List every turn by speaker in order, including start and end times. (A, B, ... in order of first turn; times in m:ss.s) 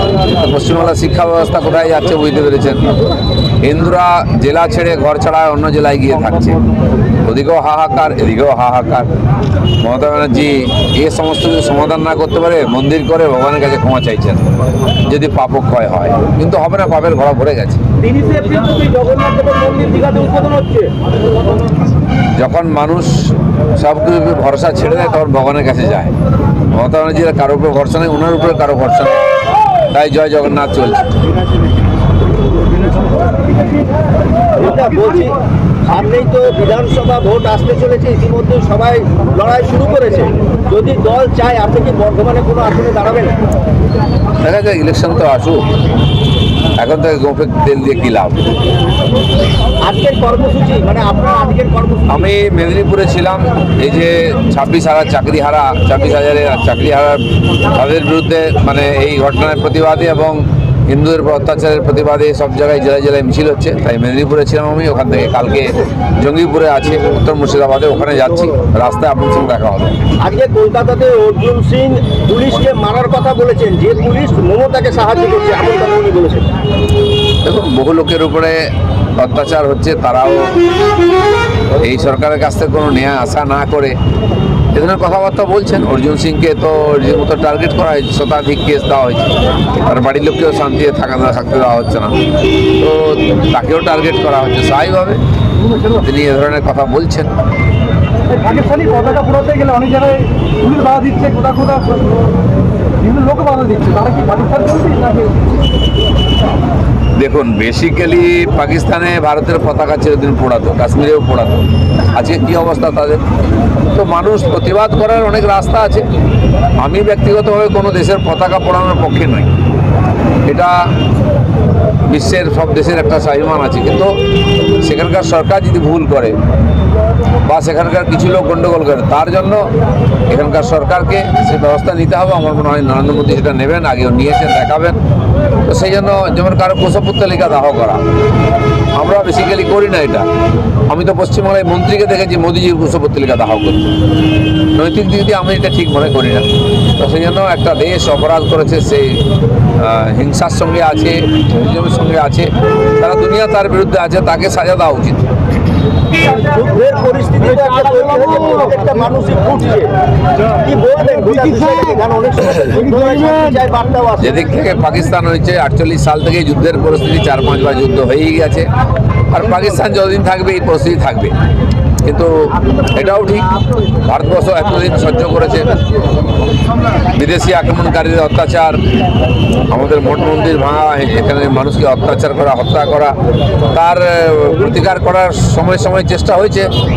0:00.4-0:02.9 A
0:03.6-0:06.6 A
0:07.2-0:09.1 A
0:09.8-0:14.4 A
0:15.1-0:17.8 A
0:18.0-0:20.9 B
0:22.4-0:26.1 A
0:26.7-0:29.2 A
0:29.9-0:31.1 A
0:34.6-0:43.4 B
0:44.4-0:45.6 A
0:46.8-0:48.4 A
0:49.8-0:52.3 B
0:52.1-1:10.0 A
1:10.2-1:16.5 B
1:17.4-1:20.5 A
1:21.8-1:24.0 A
1:24.7-1:32.2 A
1:32.8-1:35.2 A
1:35.9-1:37.3 A
1:38.4-1:42.0 C
1:43.0-1:45.3 C
1:47.2-1:53.2 A
1:53.9-1:56.1 A
1:56.8-1:59.5 A
2:00.4-2:00.8 A
2:02.1-2:04.2 A
2:04.8-2:06.4 A
2:07.4-2:09.7 A
2:10.3-2:15.0 A
2:15.7-2:18.0 A
2:19.0-2:20.3 A
2:20.9-2:23.9 A
2:24.7-2:29.2 A
2:29.8-2:35.2 A
2:36.4-2:39.9 B
2:40.6-2:44.3 B
2:44.2-2:48.7 A
2:49.3-2:51.3 A
2:52.0-2:52.3 A
2:52.9-2:55.7 A
2:57.1-2:58.8 A
2:59.7-3:03.2 A
3:03.7-3:06.7 A